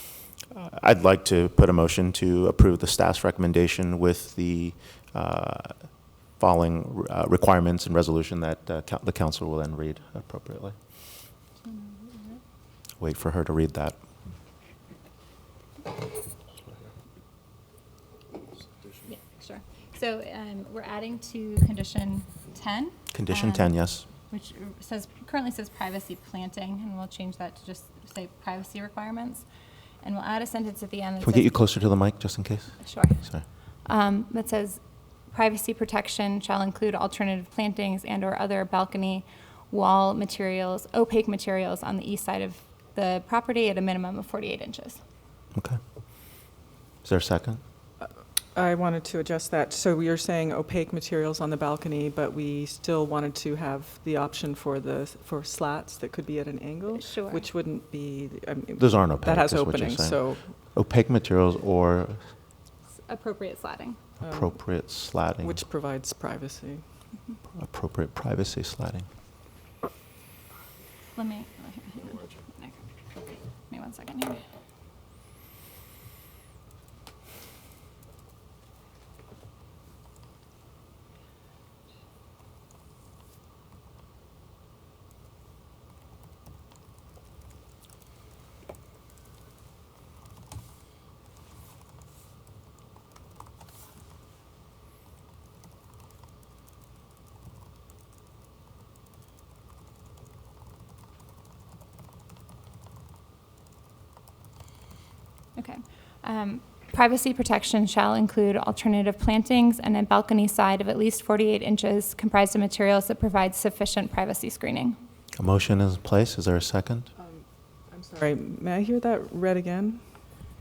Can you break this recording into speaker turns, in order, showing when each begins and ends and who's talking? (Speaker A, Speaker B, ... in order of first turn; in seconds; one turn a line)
Speaker A: 0.5-10.8
Speaker B: 11.6-12.4
Speaker A: 13.0-14.0
Speaker B: 19.1-23.8
Speaker A: 23.1-24.1
Speaker B: 24.3-29.4
Speaker B: 30.0-31.6
Speaker A: 31.2-33.4
Speaker B: 32.8-33.2
Speaker B: 33.8-45.0
Speaker A: 47.0-47.6
Speaker C: 48.0-60.5
Speaker B: 56.9-57.4
Speaker A: 58.8-62.2
Speaker B: 63.1-64.1
Speaker C: 64.2-64.8
Speaker A: 64.2-65.6
Speaker C: 65.4-66.8
Speaker A: 67.5-69.1
Speaker B: 71.2-74.4
Speaker B: 105.5-115.0
Speaker A: 115.4-117.1
Speaker C: 117.9-120.0